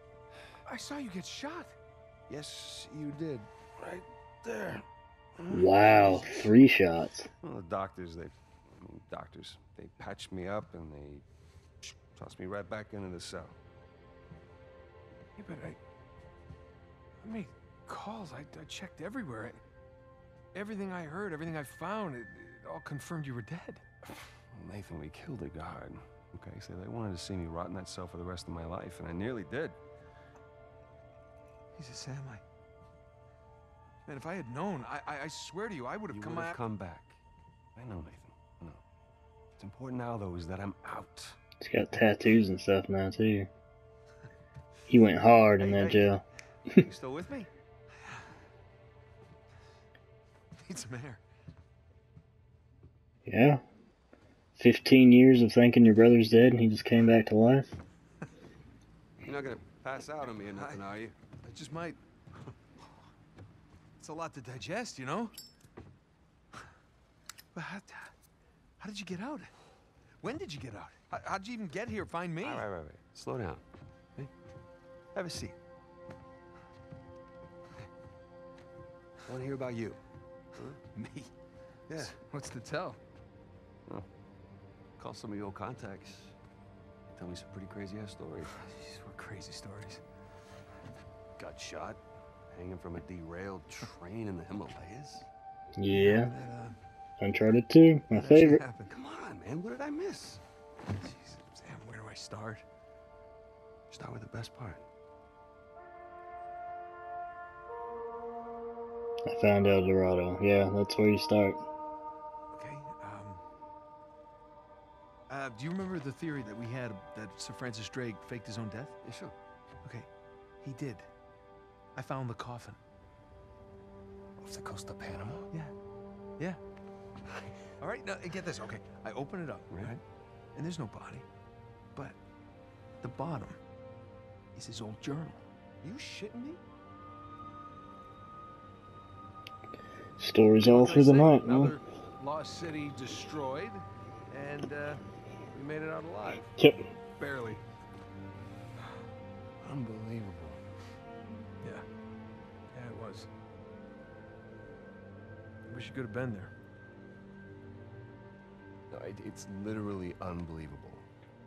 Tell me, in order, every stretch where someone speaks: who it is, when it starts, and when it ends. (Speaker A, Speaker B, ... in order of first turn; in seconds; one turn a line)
Speaker A: 0.6-1.8
Speaker B: 2.3-4.8
Speaker B: 5.4-6.5
Speaker C: 5.5-7.3
Speaker B: 7.4-11.2
Speaker B: 11.8-13.6
Speaker A: 15.4-15.8
Speaker A: 17.2-19.6
Speaker A: 20.5-23.8
Speaker B: 24.1-29.8
Speaker A: 31.7-32.4
Speaker A: 34.0-36.6
Speaker B: 36.1-37.2
Speaker B: 37.8-38.8
Speaker B: 39.6-41.4
Speaker C: 41.6-43.5
Speaker C: 44.9-46.2
Speaker B: 45.6-46.0
Speaker B: 46.6-47.5
Speaker A: 50.6-51.2
Speaker C: 53.2-53.6
Speaker C: 54.5-57.8
Speaker B: 59.2-61.2
Speaker A: 60.5-60.8
Speaker A: 61.4-62.0
Speaker A: 64.0-65.3
Speaker A: 67.5-68.1
Speaker A: 68.8-69.5
Speaker A: 70.2-72.7
Speaker B: 72.4-73.6
Speaker B: 75.1-75.5
Speaker B: 79.3-80.0
Speaker B: 80.5-80.8
Speaker A: 80.9-81.3
Speaker B: 81.9-82.2
Speaker A: 81.9-83.0
Speaker B: 85.0-86.3
Speaker B: 87.1-88.5
Speaker A: 88.5-90.0
Speaker B: 91.4-95.3
Speaker C: 95.8-96.3
Speaker A: 95.9-96.8
Speaker C: 97.2-98.6
Speaker A: 98.1-98.9
Speaker B: 98.9-100.4
Speaker B: 101.0-101.5
Speaker A: 101.4-102.6
Speaker B: 103.9-104.8
Speaker C: 109.3-111.6
Speaker A: 112.5-113.4
Speaker A: 115.3-119.0
Speaker B: 119.0-119.3
Speaker A: 120.6-121.1
Speaker A: 121.9-122.8
Speaker B: 124.4-125.5
Speaker A: 127.8-130.0
Speaker A: 130.5-131.2
Speaker A: 133.0-133.6
Speaker A: 134.5-135.4
Speaker B: 135.8-136.6
Speaker C: 140.2-141.8
Speaker A: 140.6-145.0
Speaker B: 145.5-146.4
Speaker A: 145.6-146.3
Speaker C: 146.6-146.8
Speaker A: 147.2-147.6
Speaker B: 149.6-150.6
Speaker A: 152.7-153.3
Speaker A: 155.7-156.5
Speaker B: 158.9-161.1